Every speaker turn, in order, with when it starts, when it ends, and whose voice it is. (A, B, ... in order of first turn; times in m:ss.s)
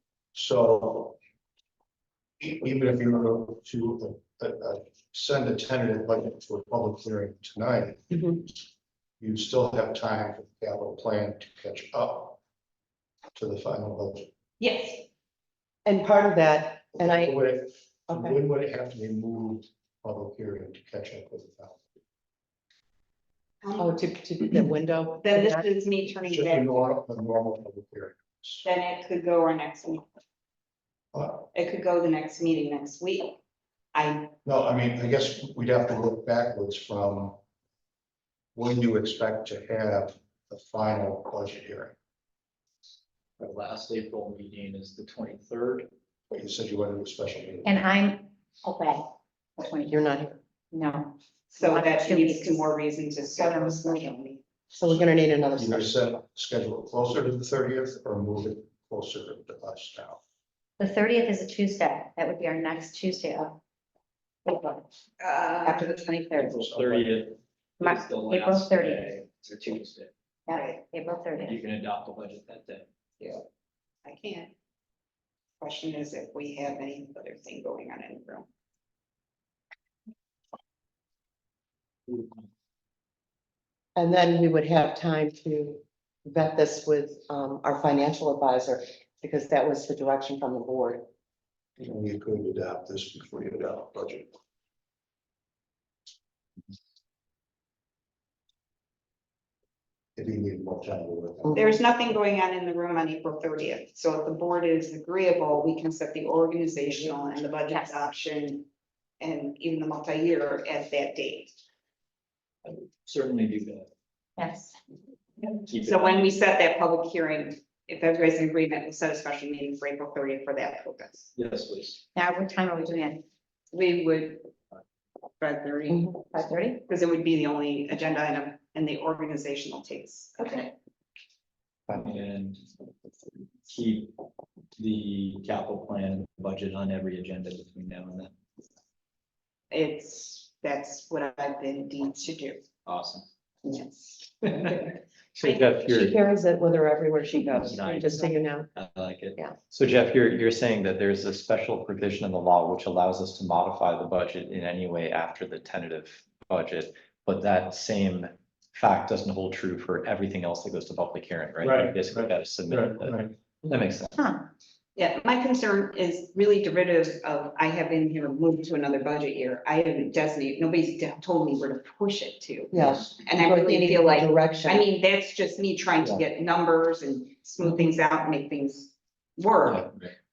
0:00.3-0:01.2 A
0:02.4-0:08.4 A
0:08.1-0:08.4 B
0:09.2-0:12.4 A
0:13.3-0:14.3 A
0:14.6-0:15.0 C
0:15.8-0:17.6 B
0:17.0-0:21.8 A
0:18.1-0:18.4 B
0:23.6-0:24.1 C
0:23.8-0:25.6 B
0:25.2-0:26.9 C
0:26.3-0:28.6 A
0:28.6-0:30.0 C
0:31.1-0:31.5 A
0:31.5-0:33.4 C
0:33.9-0:34.3 C
0:34.4-0:37.4 A
0:38.5-0:41.9 A
0:43.4-0:45.9 D
0:46.3-0:47.7 A
0:47.6-0:49.0 E
0:49.6-0:50.0 E
0:49.8-0:50.4 B
0:50.7-0:52.7 E
0:51.5-0:54.4 C
0:53.2-0:54.1 E
0:54.7-0:56.0 B
0:55.6-1:00.2 A
1:00.8-1:03.6 E
1:04.4-1:04.8 E
1:05.2-1:06.2 C
1:05.6-1:06.6 E
1:06.3-1:10.1 D
1:06.6-1:07.2 A
1:07.8-1:09.2 E
1:10.5-1:11.6 E
1:10.5-1:10.8 C
1:11.4-1:12.9 D
1:14.0-1:14.5 C
1:15.6-1:18.5 C
1:24.0-1:31.0 B
1:31.8-1:34.3 A
1:40.2-1:41.7 A
1:41.5-1:48.7 C
1:47.7-1:48.0 E
1:49.2-1:51.6 C
1:52.6-1:53.9 D
1:54.4-1:54.8 E
1:55.7-1:56.3 D
1:55.8-2:01.3 C
2:01.3-2:02.0 D
2:02.1-2:03.2 E
2:03.7-2:04.5 C
2:05.4-2:06.2 C
2:06.3-2:06.8 E
2:06.8-2:10.7 C
2:11.9-2:12.6 D
2:13.7-2:14.1 D
2:14.8-2:18.3 D
2:19.7-2:22.6 C
2:22.8-2:23.3 D
2:23.6-2:25.6 C
2:25.4-2:26.2 F
2:25.8-2:28.7 B
2:27.6-2:29.4 D
2:29.7-2:44.2 F
2:41.6-2:43.3 A
2:44.2-2:44.4 E
2:45.0-2:59.9 C
2:52.7-2:54.8 B